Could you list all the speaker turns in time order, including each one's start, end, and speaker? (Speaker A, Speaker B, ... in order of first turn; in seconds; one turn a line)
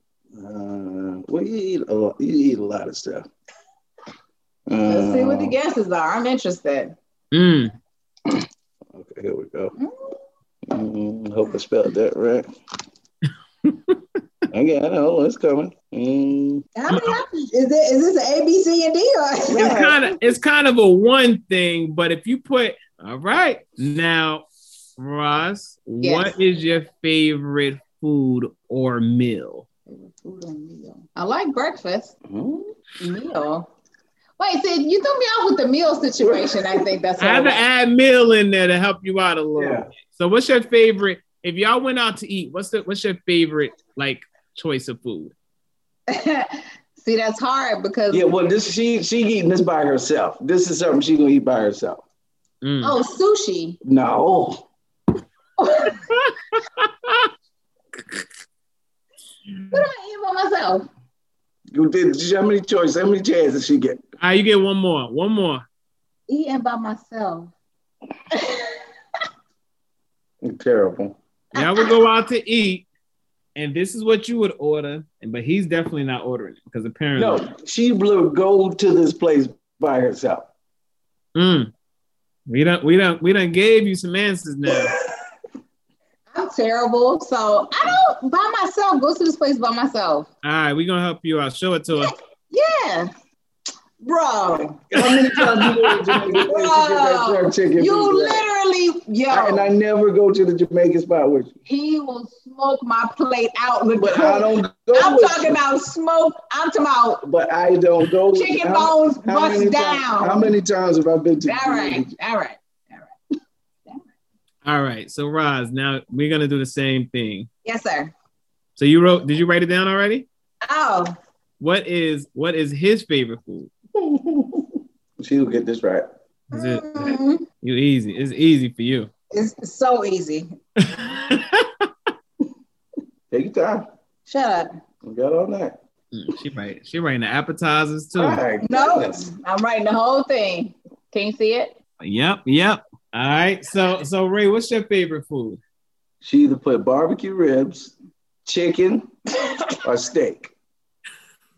Speaker A: 0.3-3.3
Speaker A: 4.7-5.5
Speaker B: 4.9-7.0
Speaker C: 7.3-7.7
Speaker A: 8.9-9.7
Speaker B: 9.8-10.1
Speaker A: 10.7-12.4
Speaker C: 13.6-14.0
Speaker A: 14.5-16.6
Speaker B: 16.8-19.9
Speaker C: 16.9-17.2
Speaker A: 19.5-20.1
Speaker C: 19.6-29.7
Speaker B: 26.0-26.4
Speaker B: 29.9-32.1
Speaker A: 32.3-32.7
Speaker B: 33.0-33.7
Speaker B: 34.4-37.6
Speaker A: 36.2-36.8
Speaker C: 37.2-45.3
Speaker A: 39.6-39.9
Speaker B: 46.1-48.4
Speaker A: 48.1-52.0
Speaker C: 52.6-53.0
Speaker B: 52.8-53.8
Speaker A: 53.8-54.6
Speaker B: 55.6-56.0
Speaker C: 56.1-57.3
Speaker B: 59.7-60.9
Speaker A: 61.7-64.0
Speaker C: 64.2-65.6
Speaker B: 66.3-67.5
Speaker B: 68.3-68.8
Speaker A: 70.4-71.2
Speaker B: 71.5-71.9
Speaker C: 71.5-72.9
Speaker C: 73.6-77.4
Speaker A: 77.2-80.5
Speaker C: 81.3-81.7
Speaker C: 82.5-85.0
Speaker B: 86.3-90.3
Speaker C: 90.4-92.1
Speaker B: 92.0-93.1
Speaker B: 94.0-94.9
Speaker A: 94.9-98.5
Speaker C: 95.3-96.1
Speaker B: 96.4-99.7
Speaker A: 99.3-101.5
Speaker B: 101.7-107.2
Speaker A: 104.0-105.6
Speaker A: 107.2-112.1
Speaker B: 108.3-110.5
Speaker B: 111.5-113.1
Speaker C: 114.6-117.5
Speaker B: 117.6-118.1
Speaker C: 118.8-120.3
Speaker B: 120.6-121.1
Speaker C: 121.6-123.7
Speaker A: 124.0-126.1
Speaker C: 126.5-129.1
Speaker B: 126.5-127.4
Speaker B: 129.3-130.5
Speaker C: 130.8-131.9
Speaker A: 133.3-133.9
Speaker B: 134.3-134.8
Speaker A: 135.0-135.8
Speaker C: 136.1-138.4
Speaker A: 138.1-139.3
Speaker B: 138.6-141.8
Speaker C: 142.0-145.6
Speaker A: 146.2-147.9
Speaker A: 148.4-149.1
Speaker A: 149.8-150.5